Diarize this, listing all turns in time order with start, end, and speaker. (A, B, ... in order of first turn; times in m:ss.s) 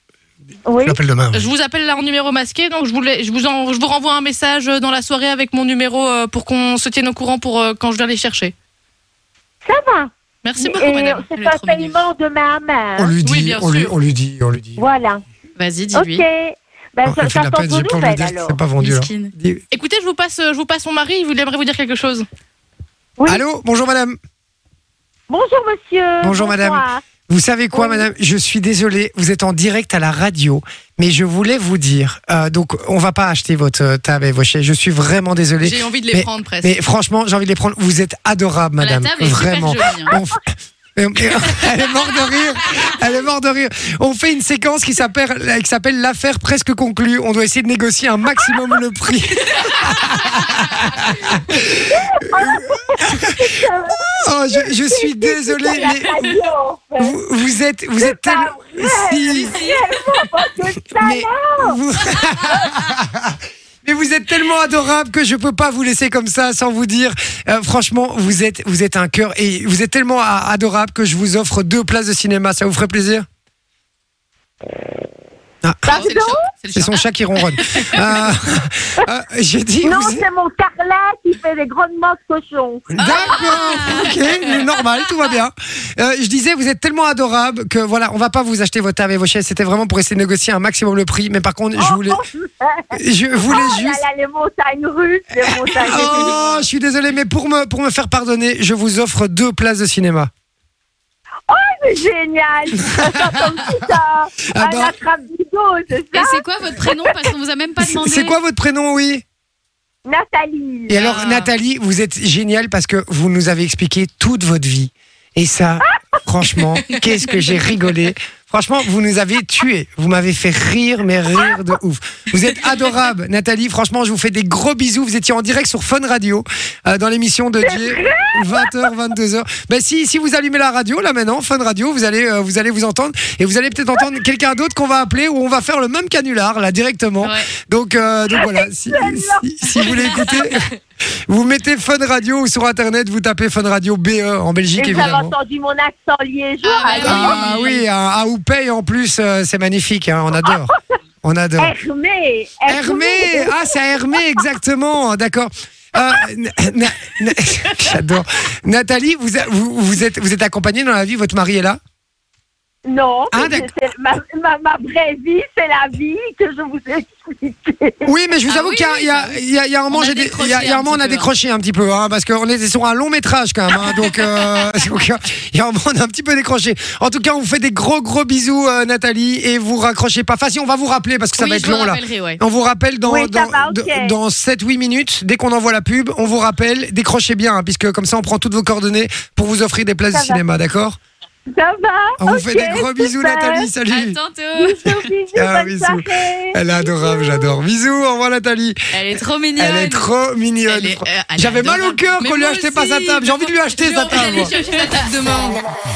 0:00.6-0:01.0 A
0:00.8-0:01.4 B
0:01.3-0:08.5 C
0:09.6-0:13.1 A
0:10.4-0:11.9 C
0:13.0-0:14.9 B
0:13.2-0:13.9 C
0:14.8-0:15.2 A
0:15.6-0:16.2 D
0:15.9-0:18.6 A
0:17.0-0:19.6 B
0:18.8-0:19.3 D
0:19.7-0:22.2 C
0:23.2-0:23.4 A
0:23.3-0:24.2 B
0:25.3-0:27.0 A
0:26.2-0:53.3 B
0:27.7-0:28.1 A
0:35.6-0:36.8 C
0:38.8-0:40.1 D
0:39.5-0:40.0 C
0:51.9-0:57.1 A
0:54.2-0:56.3 B
0:57.0-0:59.6 B
0:58.0-1:01.8 A
1:01.0-1:13.2 B
1:15.6-1:16.0 B
1:15.9-1:16.4 A
1:15.9-1:18.0 C
1:16.8-1:20.2 B
1:19.8-1:22.9 A
1:22.9-1:32.2 B
1:23.0-1:24.3 C
1:23.0-1:24.1 D
1:31.8-1:36.4 A
1:32.9-1:34.0 B
1:35.8-1:40.3 B
1:36.0-1:36.6 C
1:41.5-1:47.2 A
1:44.5-1:44.9 B
1:46.1-1:48.4 D
1:47.8-1:49.2 B
1:50.0-1:51.0 A
1:50.9-2:20.7 B
1:51.0-1:51.5 D
2:07.6-2:08.9 A
2:17.2-2:17.5 D
2:18.3-2:20.3 A
2:21.3-2:25.3 B
2:24.8-2:27.4 A
2:26.6-2:27.7 C
2:26.8-2:27.8 D
2:27.0-2:31.8 B
2:31.6-2:34.2 A
2:32.7-2:41.8 B
2:42.9-2:48.1 A
2:43.3-2:43.7 B
2:48.1-3:11.0 B
2:48.5-2:49.4 D
2:49.9-2:51.3 D
3:01.4-3:02.4 C
3:03.0-3:04.2 A
3:10.1-3:10.4 A
3:11.5-3:13.7 A
3:12.2-3:14.2 B
3:13.9-3:15.1 D
3:14.6-3:17.5 A
3:15.4-3:18.8 B
3:18.9-3:19.2 C
3:19.1-3:20.1 D
3:19.6-3:24.5 B
3:20.6-3:25.6 C